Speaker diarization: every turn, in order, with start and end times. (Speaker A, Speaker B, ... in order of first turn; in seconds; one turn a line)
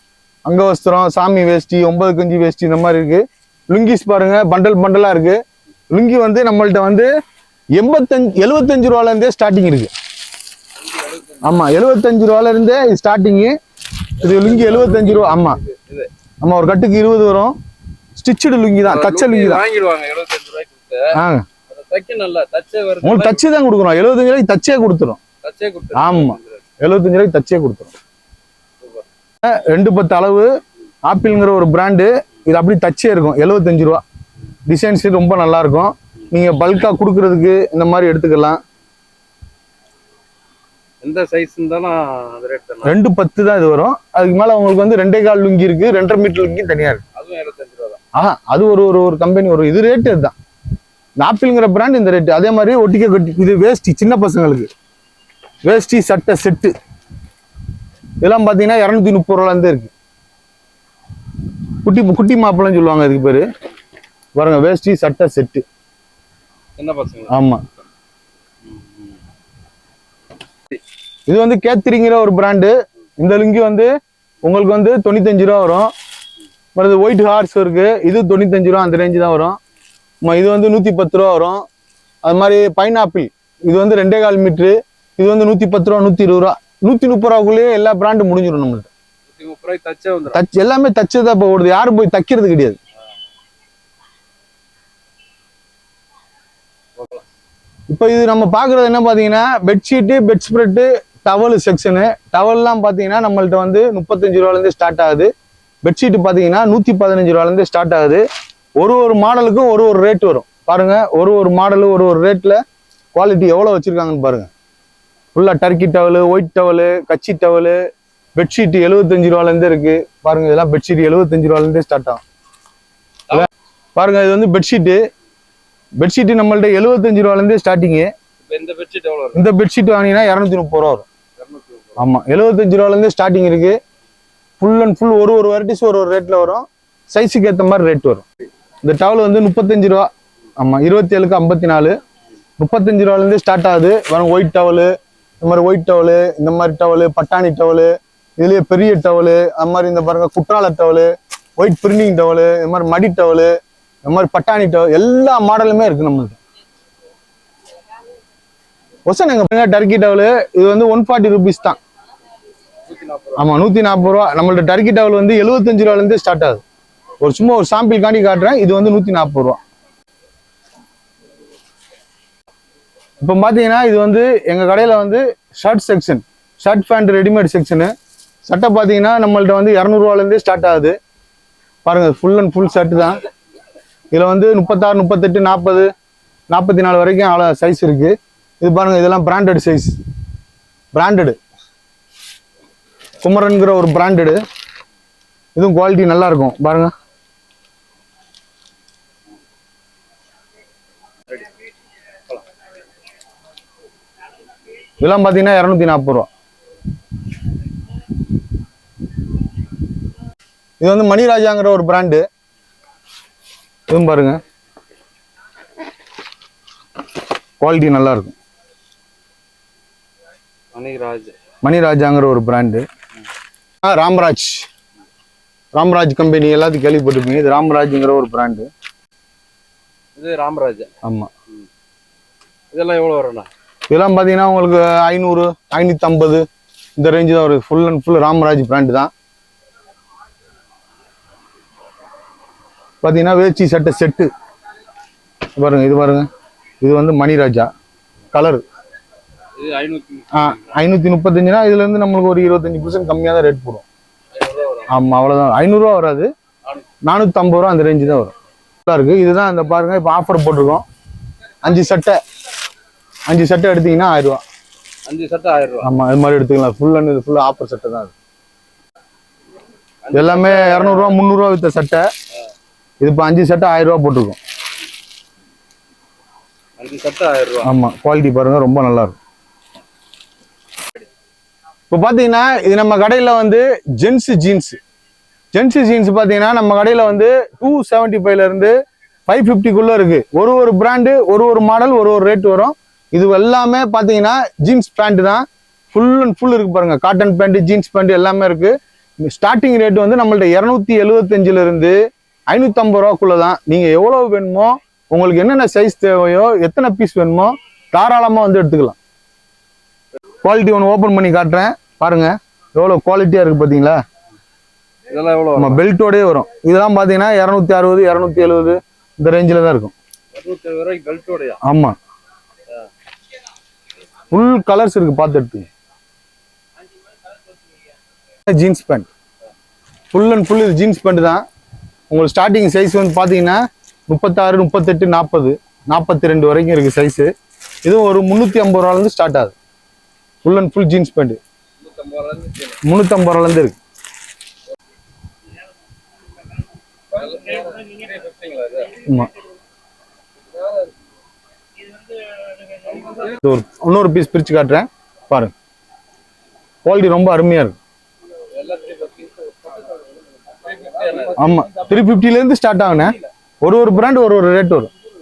Speaker A: 0.5-5.4
Speaker A: 5.9-7.1
Speaker A: 7.8-9.9
Speaker B: 10.8-11.6
Speaker A: 11.4-13.6
Speaker A: 14.2-15.6
Speaker B: 14.2-16.1
Speaker A: 16.4-17.6
Speaker A: 18.2-19.6
Speaker B: 18.8-21.2
Speaker A: 21.1-21.5
Speaker B: 21.7-23.5
Speaker A: 23.0-25.2
Speaker B: 25.4-26.6
Speaker A: 25.9-27.9
Speaker B: 28.8-29.1
Speaker A: 29.4-30.5
Speaker A: 31.1-34.0
Speaker A: 34.7-38.6
Speaker B: 41.0-43.0
Speaker A: 42.9-47.0
Speaker B: 47.1-48.0
Speaker A: 48.1-50.4
Speaker A: 51.2-54.7
Speaker A: 55.6-56.7
Speaker A: 58.2-59.9
Speaker A: 61.8-63.5
Speaker A: 64.4-65.6
Speaker B: 66.8-67.3
Speaker A: 67.3-67.6
Speaker B: 68.7-69.1
Speaker A: 71.3-73.9
Speaker A: 74.4-75.9
Speaker A: 76.8-79.6
Speaker A: 80.2-81.7
Speaker A: 82.2-88.9
Speaker B: 89.3-90.4
Speaker A: 90.3-92.8
Speaker B: 97.0-97.2
Speaker A: 97.9-105.3
Speaker A: 105.8-108.2
Speaker A: 108.8-112.6
Speaker A: 113.2-114.5
Speaker A: 115.3-117.8
Speaker A: 118.4-122.2
Speaker A: 123.3-125.0
Speaker A: 126.0-128.1
Speaker B: 128.4-129.4
Speaker A: 129.3-131.1
Speaker B: 131.4-132.1
Speaker A: 132.0-133.8
Speaker A: 134.6-138.2
Speaker A: 138.8-142.0
Speaker A: 142.6-153.5
Speaker A: 154.1-156.4
Speaker A: 159.1-161.8
Speaker B: 162.9-163.6
Speaker A: 163.4-166.6
Speaker A: 167.2-169.6
Speaker A: 173.2-177.9
Speaker A: 178.5-181.0
Speaker A: 181.8-183.2
Speaker A: 184.1-185.9
Speaker A: 186.5-190.0
Speaker A: 190.9-191.4
Speaker A: 193.2-194.4
Speaker A: 195.6-196.9
Speaker A: 205.0-206.3
Speaker A: 210.8-212.2
Speaker A: 213.9-214.4
Speaker A: 217.6-218.3
Speaker B: 220.7-221.3
Speaker A: 221.6-222.8
Speaker A: 223.8-224.7
Speaker A: 225.7-228.7
Speaker B: 230.2-230.9
Speaker A: 231.0-231.3
Speaker B: 232.7-233.5
Speaker A: 233.9-236.4
Speaker A: 237.0-239.1
Speaker A: 243.0-244.3
Speaker A: 245.6-246.3
Speaker A: 246.8-247.7
Speaker A: 248.3-248.6
Speaker B: 249.6-250.8
Speaker A: 250.3-253.8
Speaker B: 254.3-254.9
Speaker A: 254.9-256.3
Speaker A: 257.0-258.3
Speaker A: 258.9-260.9
Speaker A: 261.6-262.2
Speaker A: 263.3-264.4
Speaker B: 265.1-265.9
Speaker A: 265.8-268.1
Speaker B: 270.1-271.2
Speaker A: 270.1-272.1
Speaker A: 273.0-274.4
Speaker B: 276.8-277.7
Speaker A: 277.6-279.2
Speaker A: 281.9-284.8
Speaker A: 285.5-288.8
Speaker A: 289.3-302.0
Speaker A: 302.5-309.0
Speaker A: 310.4-314.0
Speaker B: 315.1-315.8
Speaker A: 315.6-319.9
Speaker B: 320.3-321.6
Speaker A: 321.6-322.0
Speaker A: 324.3-325.7
Speaker A: 328.5-329.1
Speaker A: 330.1-331.4
Speaker A: 332.1-337.3
Speaker A: 337.9-339.5
Speaker A: 340.4-341.4
Speaker B: 341.8-342.8
Speaker A: 342.8-343.8
Speaker B: 347.1-349.0
Speaker A: 349.1-349.3
Speaker B: 350.5-350.9
Speaker B: 352.6-353.4
Speaker A: 353.4-355.5
Speaker A: 356.8-357.8
Speaker B: 358.5-361.6
Speaker A: 361.4-364.9